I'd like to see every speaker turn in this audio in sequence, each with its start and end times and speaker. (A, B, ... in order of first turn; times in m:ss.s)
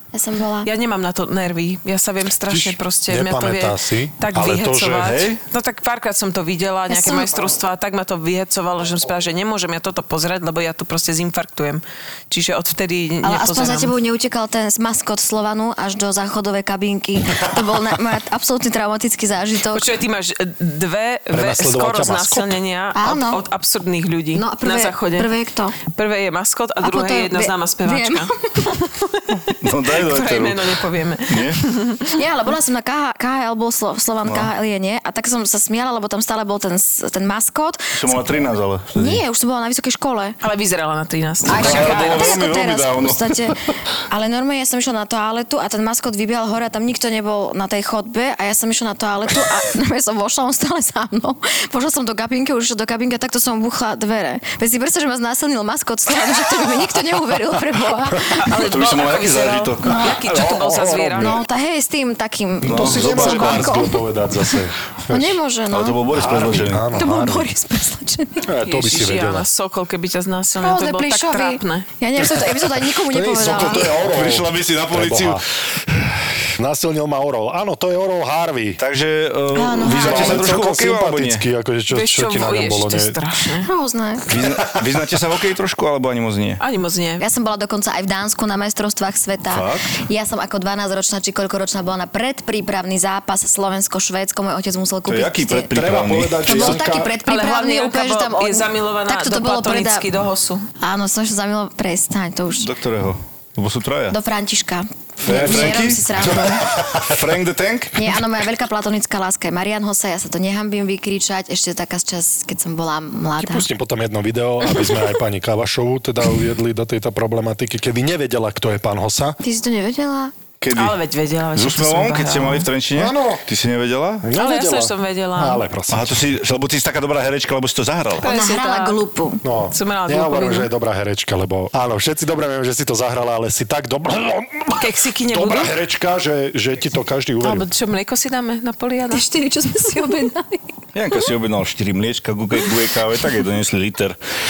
0:00.1-0:00.7 A
0:00.6-0:13.9 B
0:02.5-0:05.2 C
0:05.0-0:05.4 D
0:06.9-0:07.5 A
0:13.2-0:19.9 A
0:19.7-0:25.3 B
0:21.3-0:22.6 C
0:23.0-0:23.4 A
0:24.3-0:25.8 A
0:25.9-0:32.2 B
0:26.8-0:28.7 A
0:29.6-0:31.6 D
0:32.2-0:38.3 A
0:34.2-0:34.5 D
0:38.0-0:39.2 D
0:39.0-0:40.4 A
0:40.4-0:42.4 B
0:41.5-0:43.6 A
0:41.5-0:43.5 D
0:44.1-0:58.5 A
0:58.4-1:01.4 B
0:58.5-1:00.0 D
0:59.8-1:00.2 A
1:00.2-1:01.4 C
1:01.2-1:04.6 A
1:02.6-1:05.4 C
1:02.6-1:03.8 D
1:05.1-1:06.0 A
1:05.7-1:06.9 D
1:06.1-1:07.5 C
1:06.9-1:08.5 A
1:08.4-1:09.5 C
1:08.6-1:11.9 B
1:10.6-1:14.0 A
1:12.2-1:15.4 C
1:13.5-1:15.4 D
1:16.6-1:18.8 C
1:18.8-1:21.4 D
1:19.5-1:20.5 A
1:19.8-1:23.2 C
1:21.9-1:23.7 B
1:23.6-1:24.3 A
1:24.3-1:26.6 D
1:26.6-1:27.2 B
1:27.2-1:35.7 A
1:29.5-1:29.9 D
1:35.1-1:36.9 D
1:35.7-1:37.1 C
1:36.4-1:40.1 A
1:37.2-1:40.6 B
1:40.8-1:42.7 A
1:42.6-1:44.2 D
1:44.1-1:46.8 A
1:45.2-1:48.2 D
1:45.3-1:45.8 C
1:48.0-1:53.7 A
1:53.4-1:59.4 C
1:59.4-2:00.3 A
2:00.6-2:01.0 D
2:00.7-2:02.7 B
2:01.6-2:04.3 D
2:02.9-2:03.4 C
2:04.2-2:06.2 C
2:04.4-2:05.6 B
2:05.9-2:08.3 D
2:08.2-2:09.0 B
2:08.2-2:09.4 A
2:09.4-2:17.7 C
2:09.7-2:10.7 B
2:14.8-2:15.7 B
2:17.4-2:19.2 B
2:19.1-2:20.6 A
2:21.0-2:24.2 D